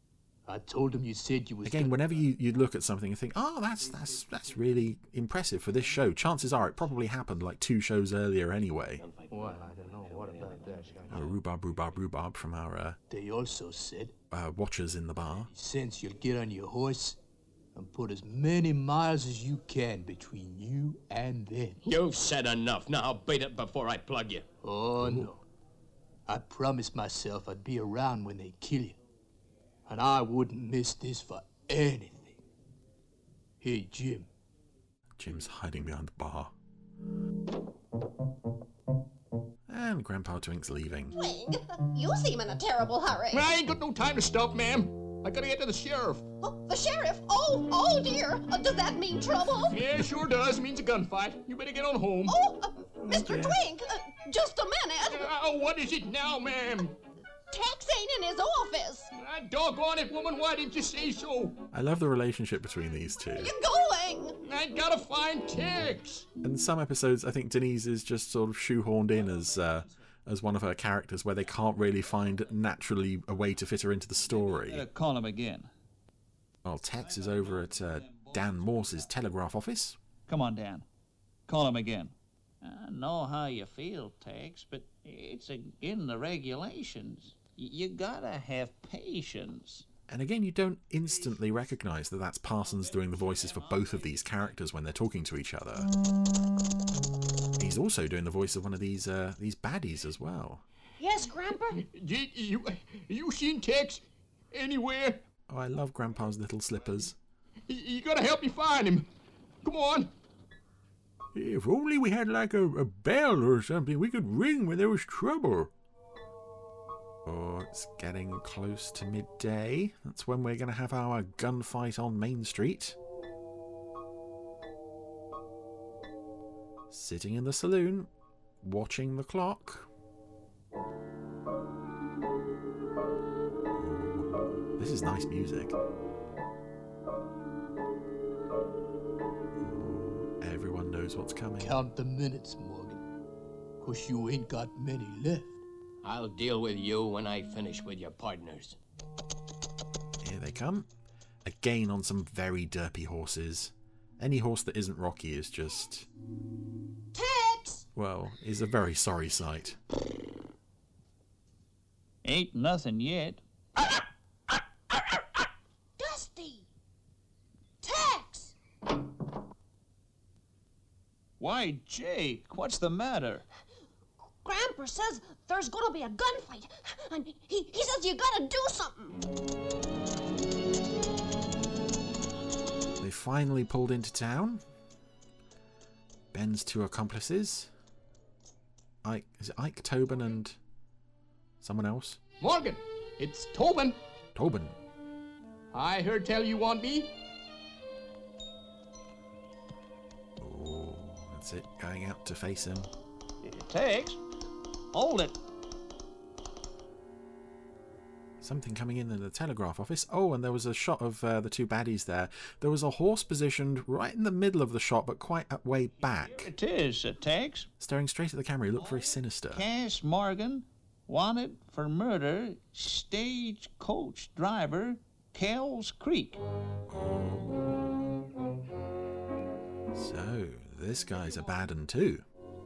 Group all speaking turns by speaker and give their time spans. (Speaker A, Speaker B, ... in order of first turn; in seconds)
Speaker A: 0.5-2.0, 9.3-11.3, 13.1-14.1, 15.5-17.2, 17.7-21.8, 24.6-25.4, 26.3-29.0, 29.9-32.4, 33.6-34.3, 141.6-143.0, 143.8-145.6
Speaker B: 1.6-9.0, 11.1-13.0, 14.3-15.5, 35.2-36.5, 39.7-41.2, 53.1-53.6, 61.7-63.5, 66.4-74.8, 76.6-80.0, 90.1-95.9, 97.6-100.6, 105.5-107.2, 111.3-115.7, 117.2-123.0, 126.9-128.1, 128.6-129.9, 133.8-135.8, 139.6-141.8, 150.2-150.9, 151.4-156.1, 157.9-159.8, 183.0-184.6, 186.3-187.7, 189.0-190.6, 191.6-192.2, 194.3-194.8, 200.4-202.9, 208.4-216.5, 217.8-219.6, 226.9-227.9, 229.9-232.2
Speaker C: 8.9-11.2, 21.8-24.5, 146.0-148.8
Speaker D: 41.1-43.5, 46.4-49.8, 52.3-55.2, 57.5-59.1, 63.3-64.4, 101.0-101.8, 157.1-157.8, 166.0-166.6, 167.8-168.5, 174.4-179.2
Speaker E: 43.3-46.2, 49.7-52.4, 55.1-57.0, 59.1-61.5, 64.4-66.2, 101.7-104.0, 104.5-105.2, 107.7-109.1, 109.6-110.1, 192.4-194.0, 195.7-197.1, 231.1-231.4
Speaker F: 69.1-69.9, 74.2-75.7, 77.0-79.1, 80.3-80.8, 81.5-89.8, 92.6-94.6, 162.2-163.4, 171.4-173.4, 203.4-204.2, 204.9-205.4, 216.0-217.7, 218.8-226.4